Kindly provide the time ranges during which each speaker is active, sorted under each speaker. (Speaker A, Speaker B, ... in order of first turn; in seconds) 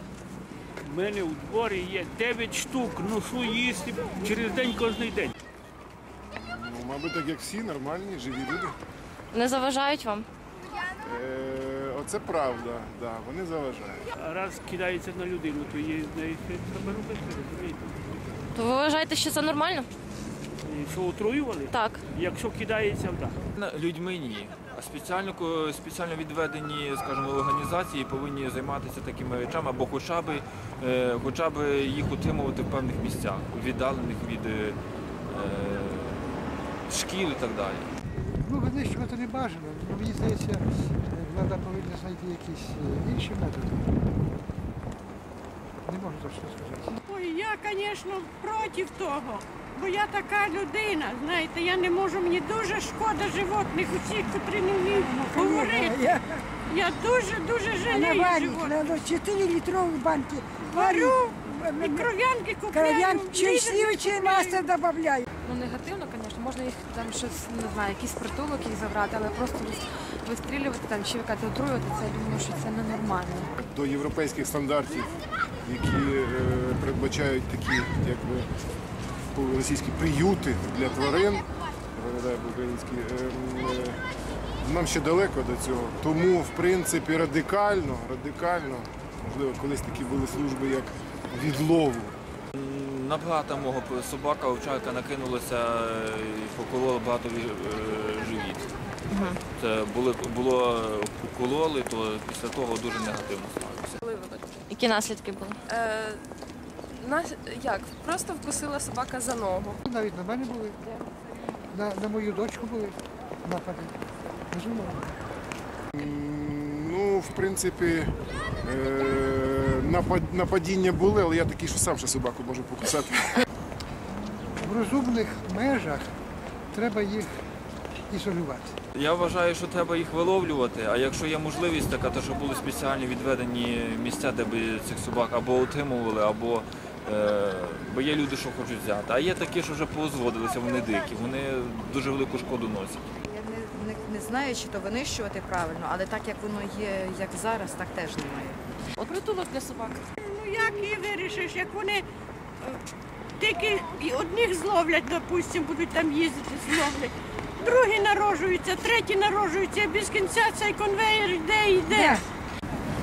Speaker A: 0.8-5.3, 14.2-18.2, 20.7-23.4
Speaker B: 6.4-8.8, 11.0-14.0, 73.6-75.1, 75.6-78.5, 79.3-84.0, 84.6-92.2, 116.0-118.1, 118.6-123.4
Speaker C: 9.3-10.3, 18.5-19.9, 21.7-22.1, 99.1-99.4, 104.7-105.6
Speaker D: 23.6-34.8, 35.3-36.3, 36.9-37.9, 92.6-98.7, 99.6-104.0, 128.9-143.1
Speaker E: 38.4-44.0, 45.9-46.9, 109.8-110.8, 111.7-114.0, 114.5-115.1, 124.6-126.2, 126.7-127.5, 128.1-128.8
Speaker F: 47.0-56.0, 56.7-58.7, 60.7-64.6, 150.2-152.1, 153.4-162.1
Speaker G: 54.8-56.4, 57.8-62.1, 62.7-65.3, 161.9-162.2
Speaker H: 65.4-73.5
Speaker I: 104.0-104.6, 105.7-106.2, 107.0-109.8, 149.0-150.1
Speaker J: 143.3-148.6